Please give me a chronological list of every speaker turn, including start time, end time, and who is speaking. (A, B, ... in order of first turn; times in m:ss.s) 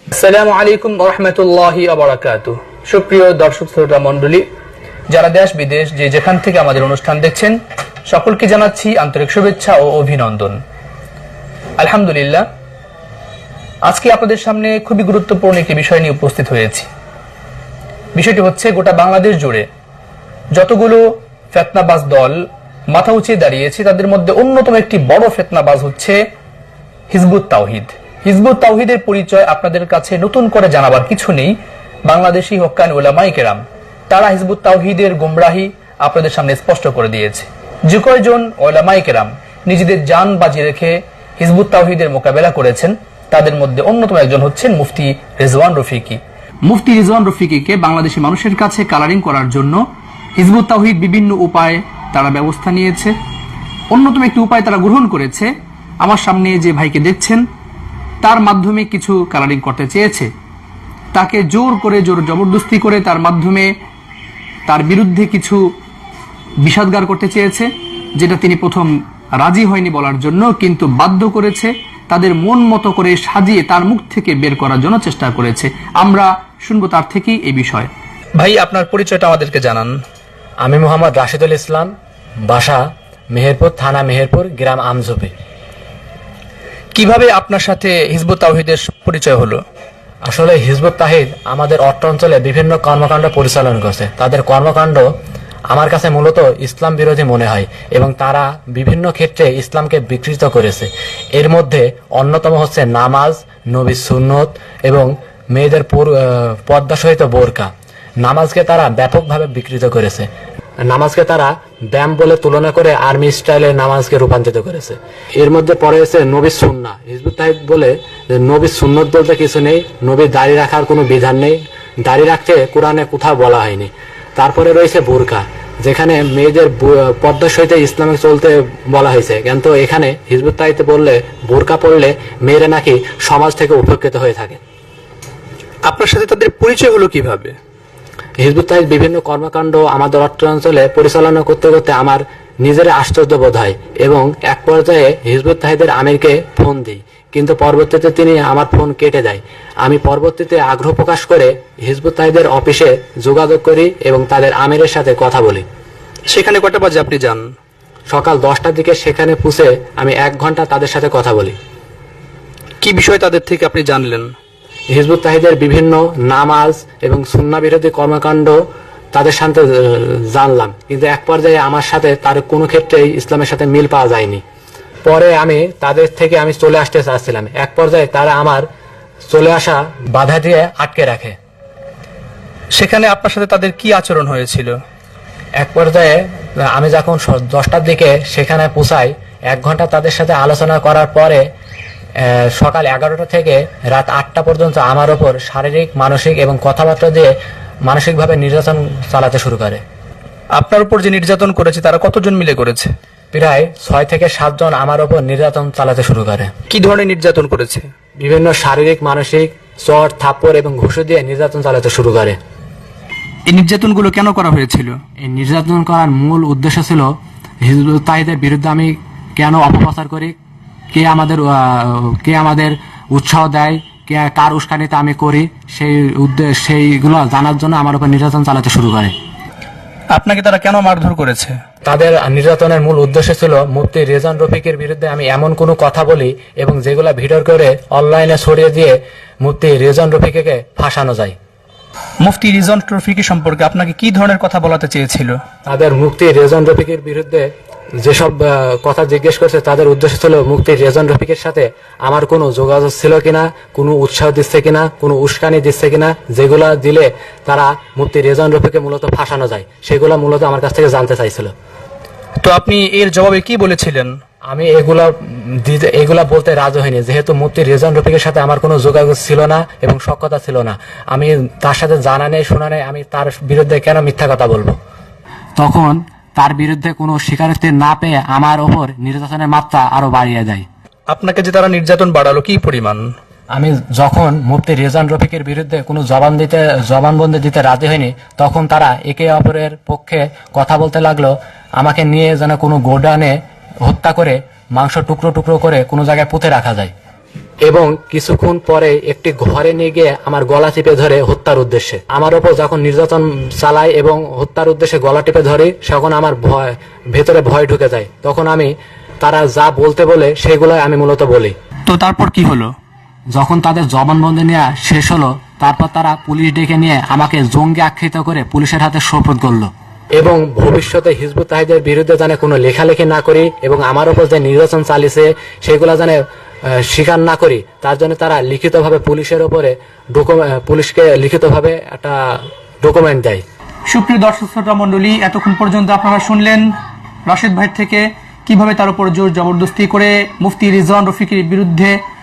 0:00.1-0:04.4 A
0:05.1-0:07.5 A
0:08.1-0:10.6 A
0:11.8-0:12.4 A
0:13.8-0:16.9 A
0:18.1-0:19.7 A
0:20.5-0:26.2 A
0:27.1-0:31.5 A
0:32.0-0:49.8 A
0:50.4-0:53.1 A
0:53.9-0:57.4 A
0:58.2-1:00.3 A
1:01.1-1:03.7 A
1:04.7-1:05.6 A
1:06.6-1:20.0 A
1:20.6-1:21.9 B
1:22.5-1:25.3 B
1:26.9-1:29.6 A
1:30.3-1:35.1 B
1:35.7-1:47.7 B
1:48.2-1:50.3 B
1:50.9-2:14.6 B
2:15.9-2:17.5 A
2:18.4-2:35.6 B
2:36.3-2:37.5 A
2:38.1-2:41.5 B
2:42.8-2:44.3 A
2:44.9-2:48.6 B
2:49.1-2:54.4 B
2:55.0-2:58.6 B
2:59.3-3:01.4 B
3:02.8-3:04.7 A
3:05.6-3:11.4 B
3:12.2-3:17.3 B
3:17.8-3:19.8 B
3:20.5-3:22.9 A
3:23.3-3:26.5 B
3:26.7-3:27.8 A
3:28.2-3:32.4 B
3:33.5-3:35.0 A
3:35.2-3:37.1 B
3:37.6-3:40.3 B
3:40.9-3:49.1 B
3:50.1-3:51.6 A
3:51.8-4:01.3 B
4:02.2-4:05.4 A
4:05.6-4:07.5 B
4:08.0-4:21.5 B
4:22.4-4:24.2 A
4:24.5-4:34.8 B
4:35.6-4:40.6 B
4:41.1-4:43.1 A
4:43.5-4:56.9 B
4:57.6-5:11.5 B
5:11.9-5:12.7 A
5:13.3-5:33.4 B
5:33.9-5:36.7 A
5:37.3-5:42.0 A